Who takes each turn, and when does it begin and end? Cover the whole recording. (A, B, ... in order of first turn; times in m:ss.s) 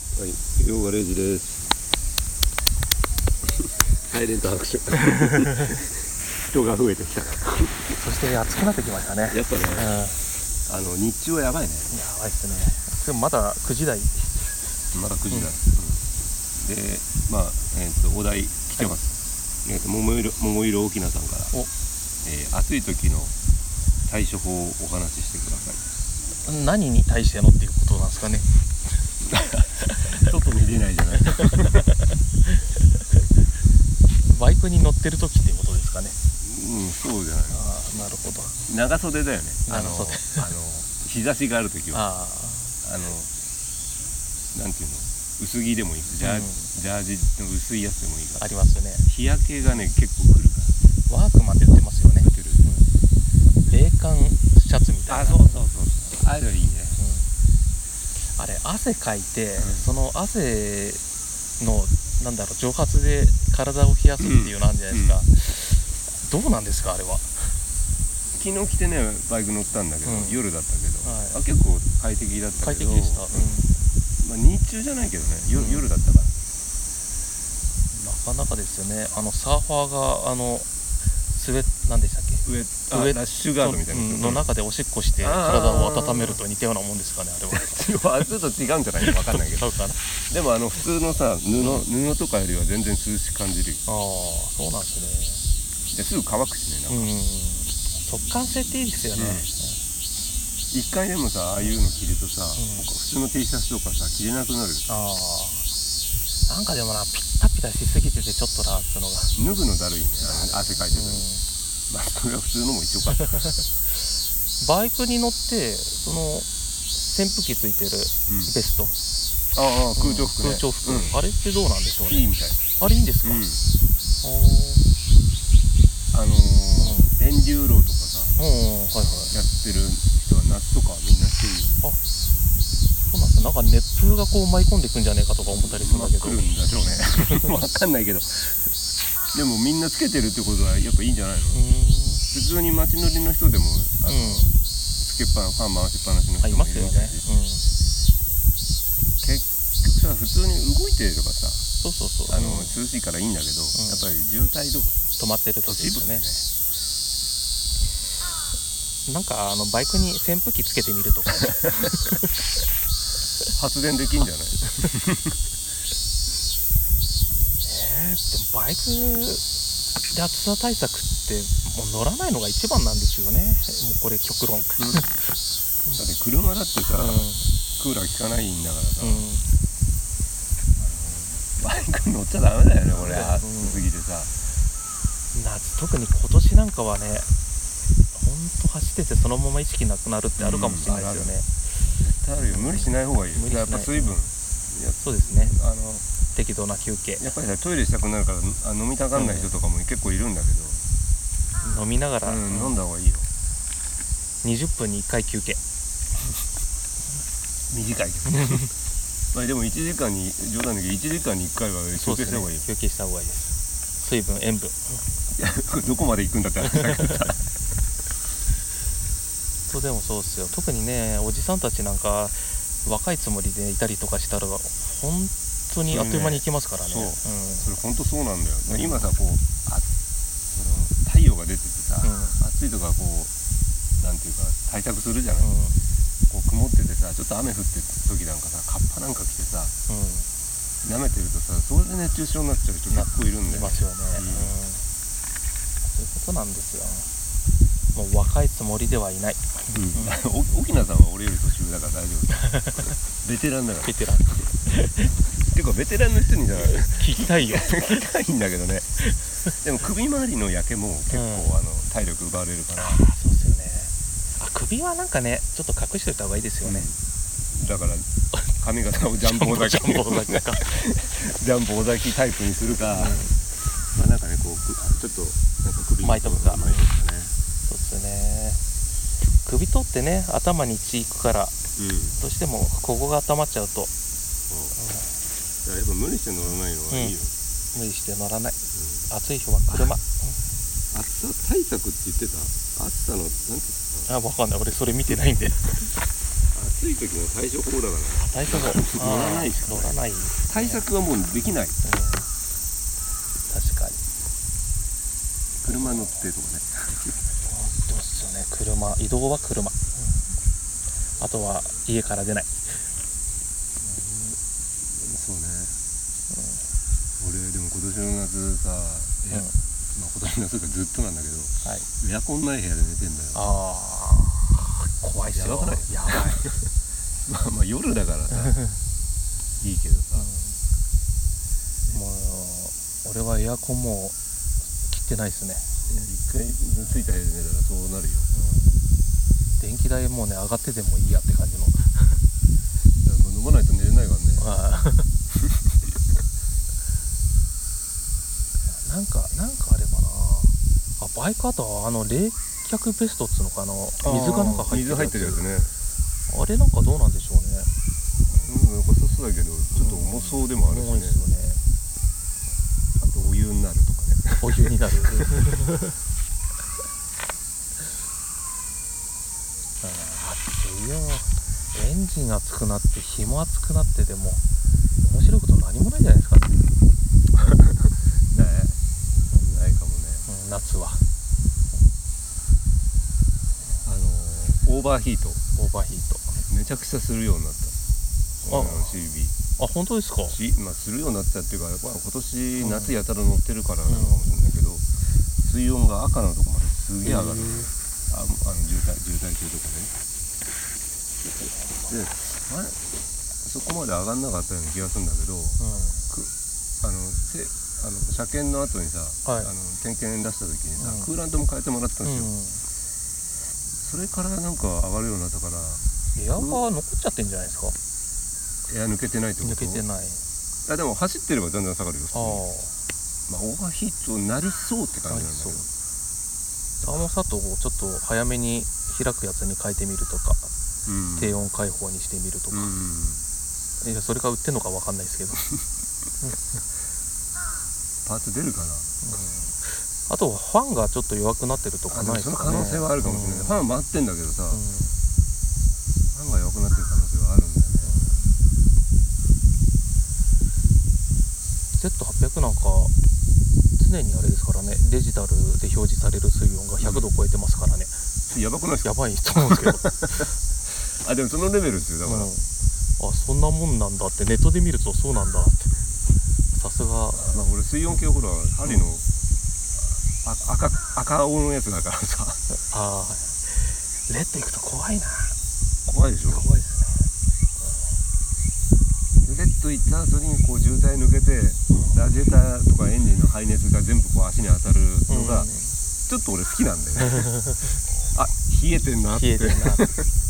0:00.1-0:01.7 A
0:04.1-0:05.8 A
0:06.4-0:07.9 A
0:08.0-0:10.2 B
0:09.3-0:10.0 A
0:10.6-0:12.0 A
0:11.9-0:14.6 B
0:14.9-0:16.0 A
0:16.6-0:21.5 A
0:22.2-0:23.3 A
0:24.0-0:25.8 A
0:26.4-0:28.4 B
0:29.2-0:31.9 A
0:29.8-0:30.2 B
0:31.4-0:32.6 B
0:34.2-0:36.2 B
0:36.4-0:37.7 A
0:37.5-0:38.6 B
0:38.6-0:42.0 A
0:39.7-0:40.5 B
0:41.9-0:42.8 B
0:42.8-0:43.3 A
0:44.5-0:48.5 A
0:46.2-0:46.7 B
0:48.4-0:49.0 B
0:49.0-0:50.8 A
0:51.1-0:52.9 B
0:52.2-0:52.7 A
0:53.6-0:55.6 B
0:55.1-0:57.0 A
0:57.0-0:57.2 B
0:58.4-1:01.0 B
0:59.6-0:59.9 A
1:01.6-1:07.5 B
1:04.2-1:05.2 A
1:08.3-1:13.3 A
1:10.0-1:10.4 B
1:11.0-1:11.4 B
1:12.6-1:13.7 B
1:14.2-1:16.3 A
1:15.5-1:15.9 B
1:17.9-1:20.7 B
1:21.3-1:28.0 B
1:22.4-1:24.4 A
1:25.2-1:26.4 A
1:27.5-1:29.7 A
1:29.0-1:30.0 B
1:30.3-1:33.8 A
1:31.6-1:31.8 B
1:33.8-1:35.4 B
1:35.9-1:37.1 A
1:36.9-1:39.8 B
1:39.1-1:39.5 A
1:40.7-1:44.9 A
1:42.6-1:42.9 B
1:44.9-1:45.6 B
1:46.5-1:49.3 B
1:49.3-1:51.3 A
1:50.2-1:51.4 B
1:51.9-1:53.4 A
1:53.1-1:53.6 B
1:54.6-1:58.9 B
1:58.3-1:58.5 A
1:59.5-2:01.2 A
2:00.0-2:02.2 B
2:02.1-2:02.6 A
2:02.8-2:03.4 B
2:03.2-2:03.6 A
2:04.2-2:04.9 B
2:06.1-2:08.3 A
2:06.8-2:07.2 B
2:08.4-2:09.3 B
2:09.0-2:11.7 A
2:13.0-2:17.5 B
2:15.5-2:18.7 A
2:19.3-2:21.6 A
2:21.5-2:22.2 B
2:22.2-2:27.2 A
2:24.1-2:24.5 B
2:26.4-2:27.7 B
2:29.2-2:31.6 A
2:31.8-2:32.8 B
2:32.3-2:35.0 A
2:33.7-2:34.0 B
2:35.2-2:36.3 B
2:35.6-2:36.5 A
2:39.0-2:42.2 B
2:43.5-2:45.4 A
2:47.6-2:49.4 B
2:50.1-2:55.2 B
2:54.8-2:55.0 A
2:56.0-2:59.3 A
2:56.9-2:57.5 B
2:59.0-2:59.5 B
3:00.8-3:04.3 A
3:02.9-3:03.9 B
3:05.3-3:07.3 B
3:08.1-3:11.5 B
3:10.4-3:11.3 A
3:12.0-3:16.0 A
3:12.4-3:14.2 B
3:15.0-3:15.6 B
3:16.3-3:17.2 B
3:17.2-3:20.8 A
3:19.1-3:19.5 B
3:21.6-3:22.8 B
3:22.2-3:23.3 A
3:24.4-3:25.6 B
3:27.7-3:28.7 A
3:28.3-3:28.7 B
3:29.3-3:32.6 A
3:32.0-3:35.0 B
3:35.4-3:37.4 A
3:36.8-3:37.1 B
3:39.7-3:47.7 B
3:45.9-3:49.9 A
3:48.7-3:49.1 B
3:50.5-3:53.3 A
3:52.0-3:52.4 B
3:54.0-3:55.5 A
3:55.4-3:55.8 B
3:56.3-3:59.7 A
3:59.9-4:00.3 B
4:00.8-4:04.5 A
4:02.9-4:04.8 B
4:05.8-4:07.1 B
4:07.9-4:10.2 B
4:09.7-4:23.1 A
4:12.3-4:12.8 B
4:13.8-4:14.5 B
4:16.6-4:17.8 B
4:19.0-4:19.5 B
4:21.1-4:21.5 B
4:22.8-4:26.9 B
4:26.6-4:26.9 A
4:27.5-4:33.2 A
4:29.2-4:30.7 B
4:32.9-4:33.3 B
4:33.9-4:37.3 A
4:36.0-4:36.9 B
4:37.7-4:38.6 B
4:39.4-4:41.6 B
4:41.8-4:42.2 A
4:42.2-4:43.9 B
4:44.5-4:44.8 A
4:44.8-4:45.1 B
4:45.6-4:47.3 A
4:46.9-4:47.2 B
4:47.7-4:50.4 B
4:48.7-4:49.1 A
4:50.9-4:54.1 A
4:54.1-4:55.9 B
4:56.5-5:01.8 A
4:58.2-5:00.8 B
5:01.8-5:02.3 B
5:03.5-5:04.0 B
5:05.6-5:07.1 A
5:05.6-5:06.2 B
5:07.4-5:10.2 B
5:11.2-5:12.7 B
5:13.8-5:14.4 A
5:14.9-5:15.8 A
5:16.3-5:16.6 B
5:17.2-5:23.4 A
5:23.3-5:26.5 B
5:25.3-5:26.5 A
5:27.2-5:28.6 A
5:28.5-5:28.7 B
5:29.6-5:30.3 A
5:30.1-5:30.6 B
5:31.9-5:34.2 B
5:34.8-5:35.6 B
5:35.9-5:38.3 A
5:38.3-5:38.8 B
5:39.6-5:42.2 B
5:43.0-5:44.5 A
5:44.4-5:45.1 B
5:48.8-5:55.4 B
5:54.0-5:55.7 A
5:56.3-5:57.7 B
5:58.3-6:01.2 A
5:59.7-6:01.6 B
6:03.0-6:05.2 A
6:04.4-6:05.9 B
6:09.8-6:14.4 B
6:15.0-6:16.7 B
6:17.3-6:18.8 A
6:19.3-6:20.3 A
6:20.3-6:21.0 B
6:23.8-6:25.4 A
6:25.6-6:26.4 B
6:26.5-6:27.7 A
6:28.4-6:29.3 A
6:28.5-6:29.0 B
6:29.6-6:30.4 B
6:30.2-6:39.9 A
6:32.6-6:32.9 B
6:33.9-6:34.4 B
6:41.3-6:41.9 B
6:41.9-6:42.8 A
6:43.4-6:52.3 A
6:45.6-6:46.0 B
6:49.2-6:49.5 B
6:50.8-6:51.1 B
6:52.0-6:52.6 B
6:53.8-6:55.8 A
6:56.2-6:57.8 B
6:56.4-6:56.6 A
6:58.7-6:59.8 A
6:59.4-7:00.2 B
7:00.6-7:02.4 A
7:02.1-7:02.8 B
7:03.3-7:05.7 A
7:05.1-7:05.7 B
7:06.8-7:10.5 B
7:10.8-7:11.4 A
7:11.2-7:12.7 B
7:12.5-7:13.2 A
7:13.8-7:15.4 B
7:18.0-7:19.0 A
7:19.0-7:23.6 B
7:21.9-7:24.6 A
7:24.5-7:25.0 B
7:26.1-7:28.0 A
7:27.8-7:28.3 B
7:31.8-7:32.9 B
7:33.8-7:37.9 B
7:36.8-7:37.0 A
7:38.3-7:42.3 A
7:38.8-7:40.3 B
7:42.0-7:45.7 B
7:46.5-7:47.4 B
7:47.1-7:49.0 A
7:50.2-7:52.4 A
7:52.5-7:55.4 B
7:55.8-7:56.5 A
7:56.3-7:57.0 B
7:59.2-8:05.5 A
8:01.7-8:02.0 B
8:05.1-8:05.8 B
8:06.1-8:07.3 A
8:07.2-8:07.7 B
8:08.1-8:10.0 A
8:09.1-8:09.9 B